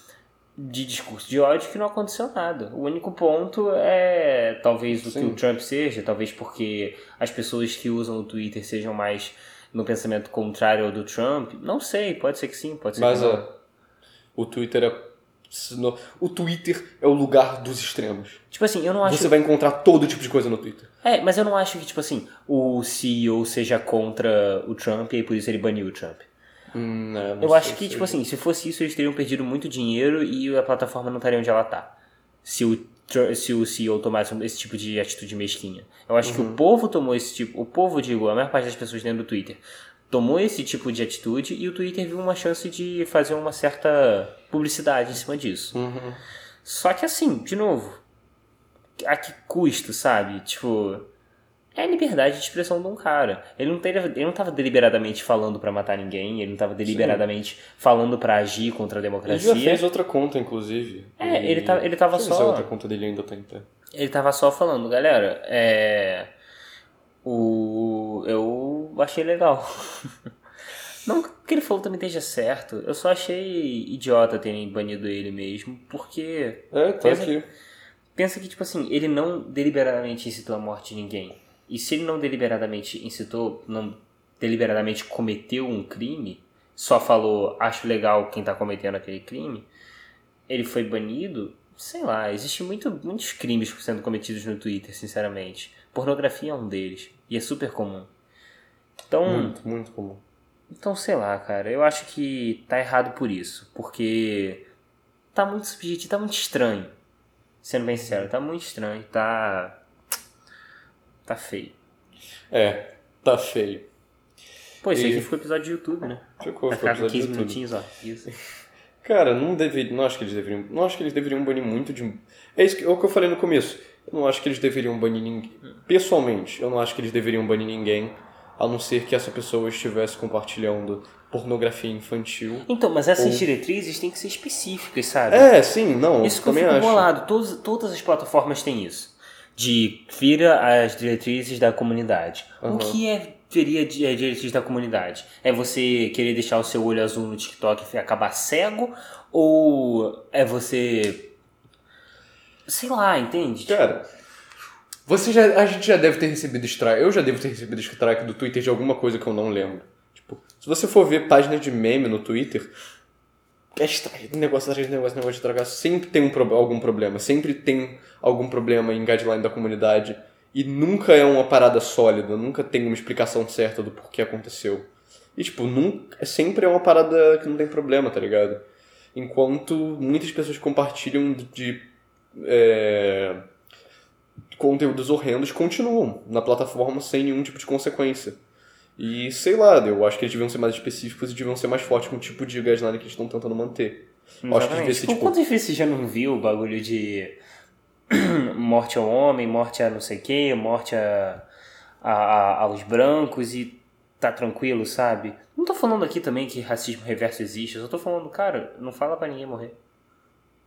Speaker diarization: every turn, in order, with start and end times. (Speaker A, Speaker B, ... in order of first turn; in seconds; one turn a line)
Speaker A: 0.6-13.5
Speaker B: 5.0-5.4
Speaker B: 12.9-13.5
Speaker B: 14.3-18.4
Speaker A: 18.5-19.3
Speaker B: 19.0-20.9
Speaker A: 21.0-26.2
Speaker B: 26.7-28.2
Speaker A: 27.4-45.8
Speaker B: 36.2-36.6
Speaker B: 45.7-46.2
Speaker A: 46.6-48.0
Speaker A: 49.0-51.1
Speaker A: 51.7-59.8
Speaker B: 56.9-57.2
Speaker B: 59.3-63.7
Speaker A: 61.2-62.7
Speaker A: 63.9-66.3
Speaker A: 67.2-70.1
Speaker A: 71.0-77.3
Speaker B: 76.7-77.5
Speaker A: 78.2-89.7
Speaker A: 90.5-98.1
Speaker A: 99.1-99.5
Speaker B: 99.2-100.2
Speaker A: 100.7-104.7
Speaker A: 105.3-106.9
Speaker A: 107.6-109.8
Speaker A: 111.2-111.8
Speaker B: 112.5-113.9
Speaker A: 114.8-118.3
Speaker B: 114.9-115.3
Speaker B: 116.4-117.6
Speaker B: 119.0-133.4
Speaker A: 132.7-135.5
Speaker B: 135.3-137.1
Speaker A: 136.2-151.3
Speaker B: 142.6-143.0
Speaker A: 152.7-153.8
Speaker B: 153.7-154.1
Speaker B: 155.1-162.7
Speaker B: 163.7-178.6
Speaker B: 179.1-183.4
Speaker B: 184.5-188.4
Speaker B: 189.0-195.4
Speaker A: 194.4-197.4
Speaker A: 198.1-201.4
Speaker A: 202.0-209.8